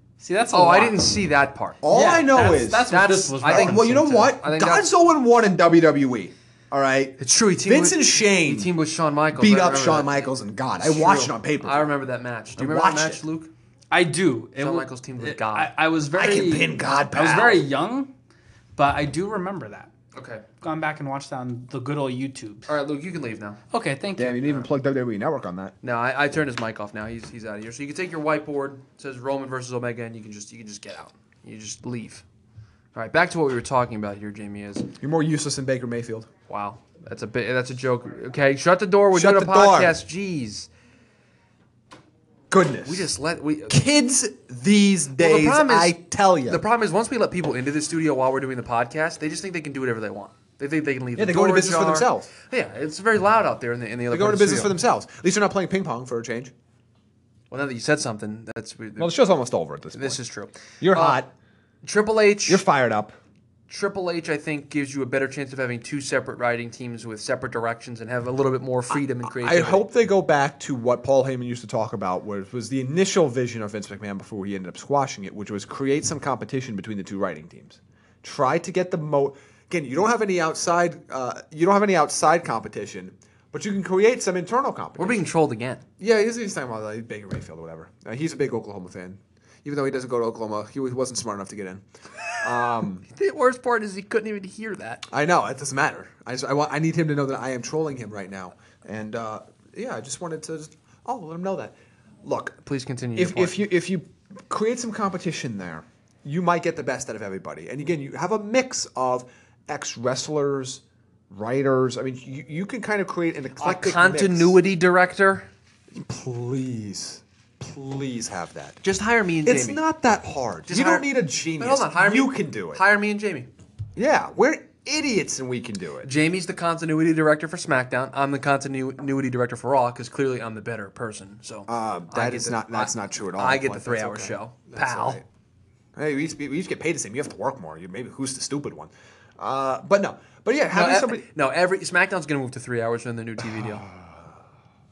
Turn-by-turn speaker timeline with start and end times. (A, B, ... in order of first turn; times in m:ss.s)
0:00.2-0:01.1 A
0:00.5-0:01.9 B
0:01.8-0:02.9 C
0:01.9-0:04.2 A
0:02.8-0:04.9 B
0:03.5-0:08.7 C
0:07.2-0:13.5 B
0:09.3-0:11.9 C
0:12.6-0:13.2 C
0:13.9-0:18.1 A
0:14.6-0:15.7 B
0:16.1-0:17.6 C
0:18.8-0:19.9 A
0:20.1-0:20.5 B
0:20.6-0:22.7 A
0:22.7-0:23.6 B
0:23.7-0:24.6 A
0:24.2-0:25.7 C
0:25.8-0:32.2 B
0:32.9-0:34.9 B
0:35.0-0:36.3 C
0:36.5-0:40.7 B
0:39.1-0:40.0 C
0:42.5-0:43.1 C
0:42.8-0:43.8 B
0:43.7-0:46.6 C
0:45.2-0:54.8 B
0:51.2-0:52.3 C
0:54.1-0:56.5 C
0:57.5-0:59.2 B
0:59.0-1:00.2 C
1:00.0-1:01.2 B
1:00.8-1:01.3 C
1:01.8-1:02.6 B
1:02.5-1:03.2 C
1:03.7-1:09.9 B
1:09.3-1:25.3 C
1:25.0-1:25.8 B
1:26.0-1:31.8 C
1:32.4-1:33.1 C
1:33.1-1:35.1 B
1:35.1-1:42.6 C
1:42.6-1:43.6 B
1:43.2-1:54.6 C
1:53.6-1:55.5 B
1:55.9-1:58.8 C
1:58.8-1:59.8 B
1:59.4-2:02.8 C
2:00.7-2:03.5 B
2:04.0-2:06.1 C
2:06.0-2:15.2 B
2:11.7-2:15.2 C
2:16.0-2:21.3 C
2:20.7-2:23.8 B
2:23.8-2:24.2 C